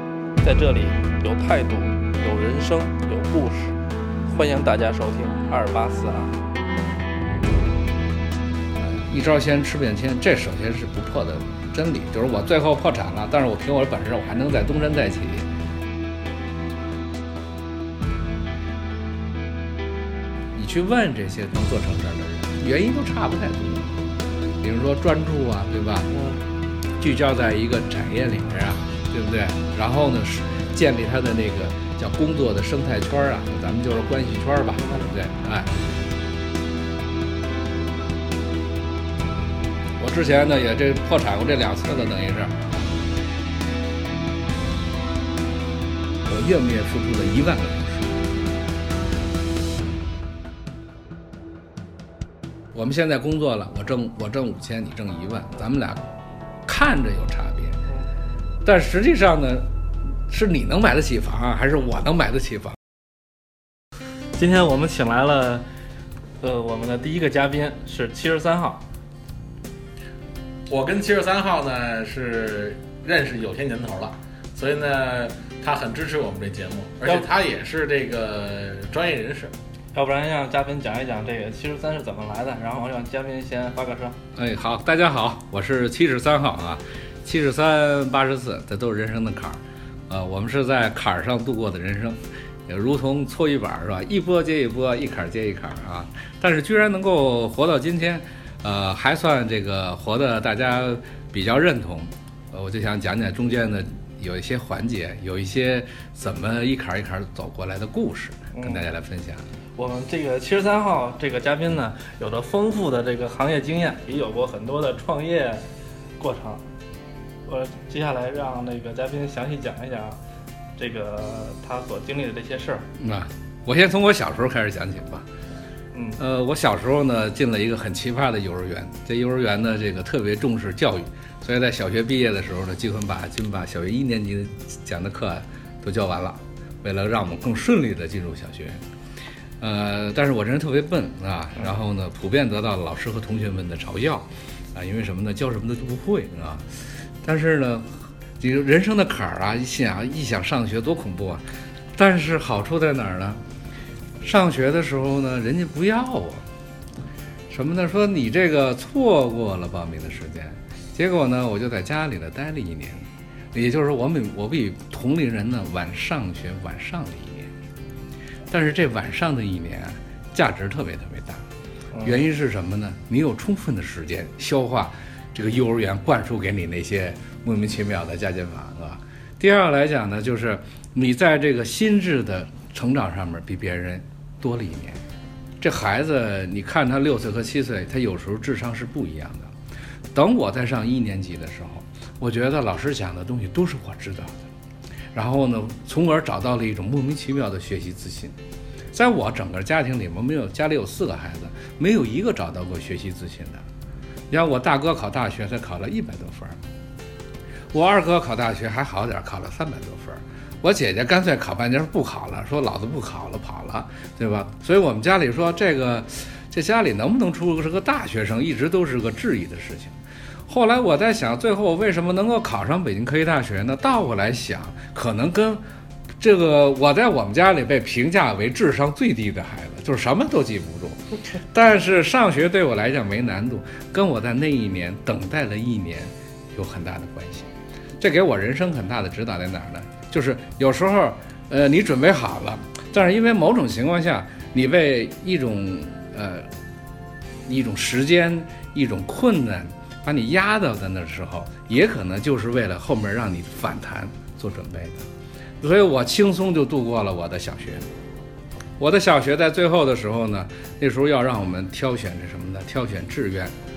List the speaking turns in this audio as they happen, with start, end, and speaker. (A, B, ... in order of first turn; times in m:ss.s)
0:00.4-0:03.8 A
0:04.3-0:06.4 A
0:08.8-0:15.5 B
0:20.5-0:23.9 B
0:24.6-0:26.1 B
0:26.1-0:26.4 A
0:27.0-0:35.7 B
0:34.8-0:35.1 A
0:40.0-0:42.6 B
0:46.2-0:48.2 B
0:52.7-0:56.1 B
0:56.6-0:57.8 B
0:58.6-0:59.7 B
1:00.3-1:02.8 B
1:04.4-1:05.6 A
1:06.4-1:08.8 A
1:10.7-1:19.5 C
1:19.9-1:24.2 A
1:24.3-1:49.4 B
1:48.5-1:48.8 A
1:49.8-1:55.6 A
1:56.2-1:56.6 A
1:57.4-2:00.2 A
2:00.8-2:02.8 A
2:03.0-2:05.3 B
2:05.9-2:06.2 A
2:06.2-2:18.8 B
2:19.6-2:26.7 B
2:27.2-2:31.4 B
2:31.9-2:33.4 B
2:34.2-2:36.4 B
2:37.5-2:47.5 B
2:48.5-2:51.4 B
2:51.9-2:52.2 A
2:52.0-3:05.0 B
3:05.6-3:09.5 B
3:10.1-3:14.4 B
3:15.1-3:18.4 B
3:18.9-3:23.6 B
3:24.3-3:26.6 B
3:27.7-3:45.6 B
3:46.2-3:51.0 B
3:51.5-4:06.5 B
4:07.4-4:15.0 B
4:15.6-4:17.9 B
4:18.8-4:23.5 B